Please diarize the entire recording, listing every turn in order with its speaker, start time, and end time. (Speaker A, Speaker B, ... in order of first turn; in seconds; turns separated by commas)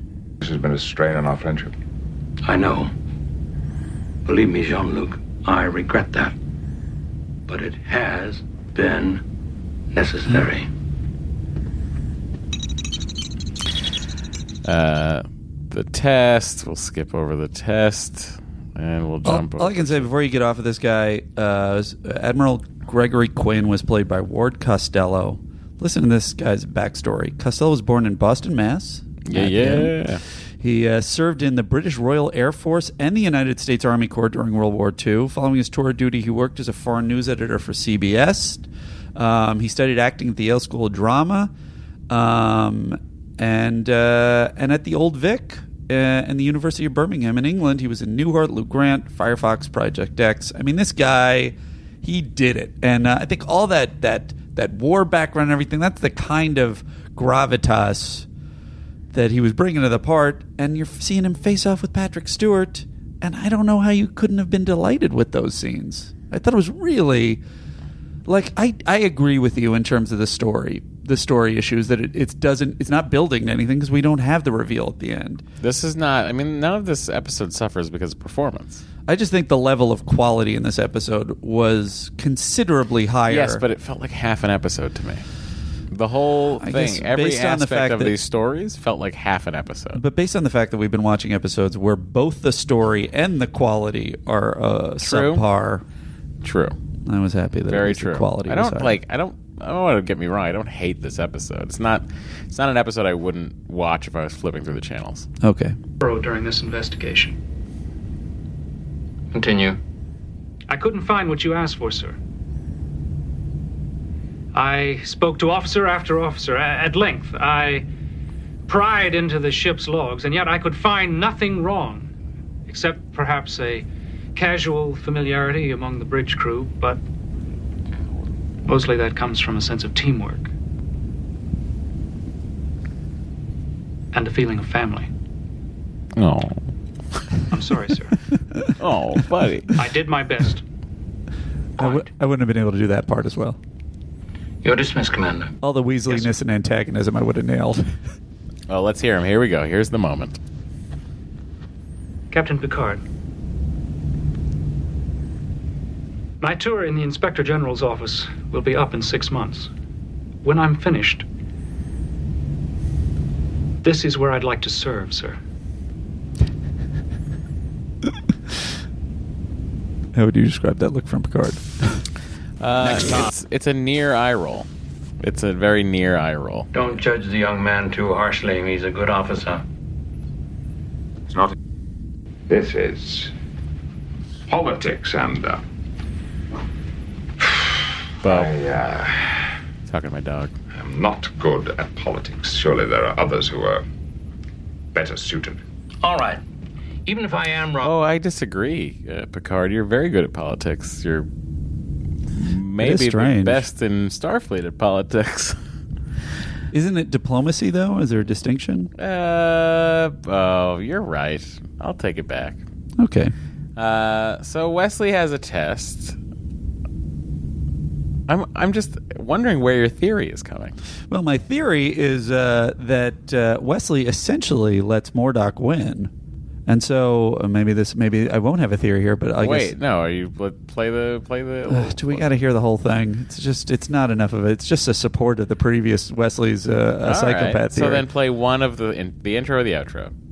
Speaker A: 0.4-1.7, Speaker B: 14.6-20.1, Speaker C: 19.2-30.0, Speaker B: 29.2-30.2, Speaker C: 30.6-41.5, Speaker C: 42.1-58.3, Speaker C: 59.1-67.4, Speaker C: 68.3-75.4, Speaker B: 75.6-78.8, Speaker C: 79.1-83.6, Speaker B: 83.3-85.2, Speaker B: 85.9-90.0, Speaker C: 86.6-88.2, Speaker C: 89.9-95.8, Speaker B: 95.0-95.4, Speaker B: 96.4-96.8, Speaker C: 97.1-99.0, Speaker B: 97.7-105.3, Speaker C: 105.4-105.8, Speaker D: 106.0-107.4, Speaker E: 109.4-109.7, Speaker D: 110.7-112.2, Speaker D: 114.5-117.9, Speaker D: 118.7-122.1, Speaker D: 122.7-127.0, Speaker D: 128.7-130.5, Speaker D: 134.1-135.1, Speaker B: 136.2-136.7, Speaker D: 137.5-138.2, Speaker B: 138.8-139.7, Speaker D: 139.8-140.6, Speaker C: 141.8-143.6, Speaker D: 141.8-142.1, Speaker E: 144.6-145.5, Speaker C: 145.6-147.9, Speaker B: 148.7-150.4, Speaker D: 152.3-153.0, Speaker D: 156.4-159.7, Speaker D: 160.4-161.2, Speaker D: 163.8-165.4, Speaker C: 170.1-172.0, Speaker B: 172.6-174.7, Speaker B: 175.2-176.7, Speaker E: 176.7-179.5, Speaker A: 182.5-183.3, Speaker A: 184.5-185.6, Speaker A: 187.4-189.5, Speaker B: 188.2-188.5, Speaker B: 189.9-190.5, Speaker A: 190.8-193.8, Speaker A: 194.9-195.6, Speaker E: 196.0-196.4, Speaker E: 197.1-197.9, Speaker B: 197.8-201.3, Speaker B: 202.4-205.6, Speaker C: 202.8-203.7, Speaker C: 206.7-208.9, Speaker B: 209.0-212.6, Speaker C: 213.0-213.3, Speaker B: 213.8-216.2, Speaker B: 218.3-220.8, Speaker C: 221.1-226.1, Speaker C: 226.7-229.8, Speaker B: 229.4-232.3, Speaker C: 231.7-238.1, Speaker B: 237.0-240.1